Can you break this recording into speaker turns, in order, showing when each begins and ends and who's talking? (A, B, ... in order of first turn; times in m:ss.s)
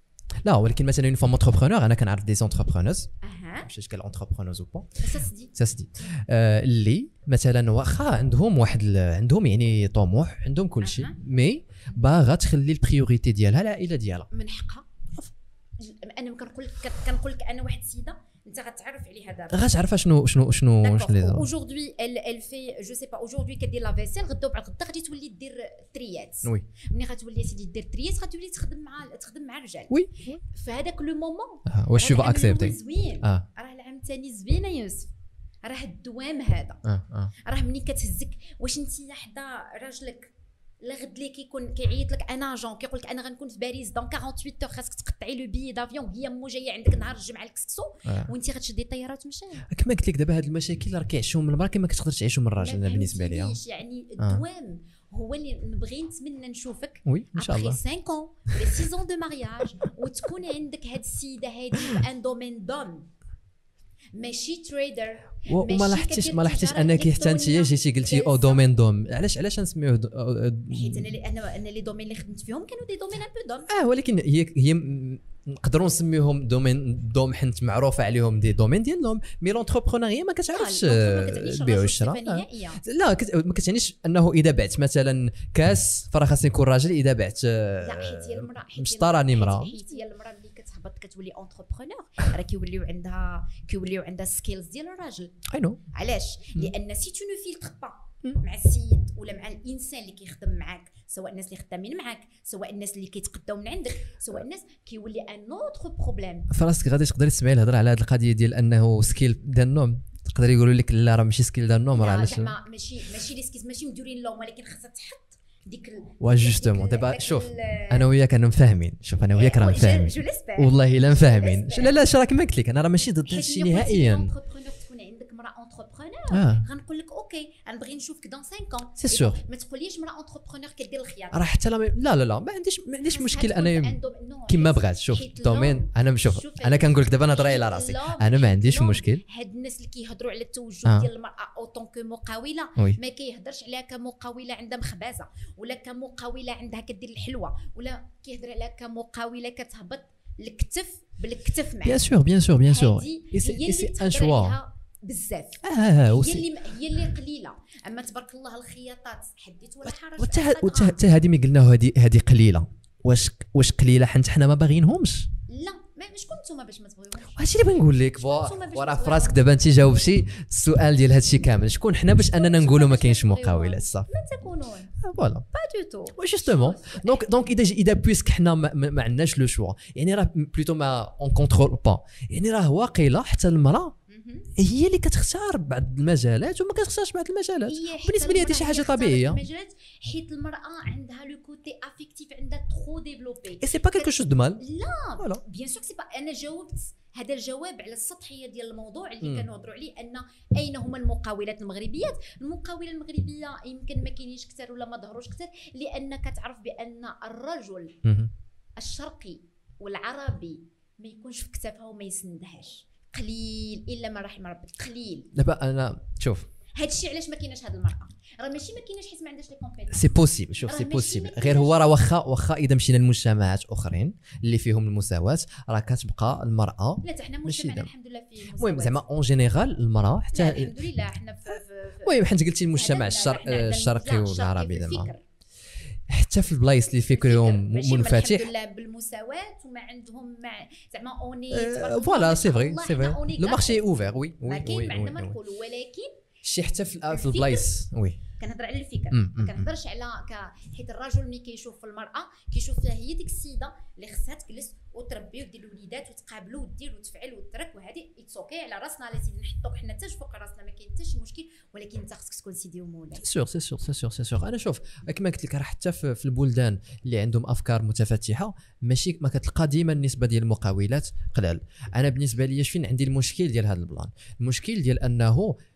0:00.4-0:03.1 A
0:03.2-0:03.7 B
0:03.6-0:14.3 A
0:05.0-0:05.5 B
0:10.8-0:11.2 B
0:14.3-0:14.9 B
0:15.8-0:19.7 B
0:19.5-0:21.5 A
0:20.8-0:35.1 B
0:29.9-0:30.4 A
0:31.6-0:33.4 A
0:35.6-0:36.8 B
0:36.8-0:37.3 A
0:37.4-0:49.6 B
0:49.7-0:53.6 A
0:52.6-1:03.1 B
0:57.0-0:57.8 A
1:04.1-1:08.7 B
1:05.4-1:11.1 A
1:10.7-1:13.7 B
1:13.7-1:29.7 A
1:20.5-1:22.8 B
1:27.8-1:35.4 B
1:35.5-1:35.8 A
1:35.9-1:46.5 B
1:46.5-1:52.5 A
1:51.9-1:58.1 B
1:56.2-2:04.3 A
1:59.3-2:02.0 B
2:03.2-2:11.4 B
2:06.3-2:06.6 A
2:09.0-2:09.4 A
2:11.3-2:19.2 A
2:13.1-2:32.0 B
2:31.8-2:34.6 A
2:32.6-2:41.0 B
2:35.6-2:36.4 A
2:39.8-2:45.3 A
2:45.5-2:49.4 B
2:47.3-2:54.1 A
2:52.2-2:54.9 B
2:55.0-2:55.4 A
2:55.5-2:57.3 B
2:56.1-3:03.9 A
3:04.1-3:04.5 B
3:04.6-3:09.4 A
3:07.6-3:28.0 B
3:13.6-3:14.6 A
3:19.2-3:19.5 A
3:28.0-3:28.3 A
3:28.8-3:35.3 B
3:35.3-3:36.5 A
3:36.8-3:41.8 B
3:39.9-3:47.9 A
3:47.0-3:49.0 B
3:48.5-3:50.8 A
3:50.3-3:55.2 B
3:52.0-3:55.1 A
3:56.1-3:58.5 A
3:57.1-4:06.2 B
4:01.5-4:05.4 A
4:06.4-4:08.2 A
4:07.1-4:07.7 B
4:08.3-4:23.2 B
4:09.1-4:09.7 A
4:23.2-4:35.6 A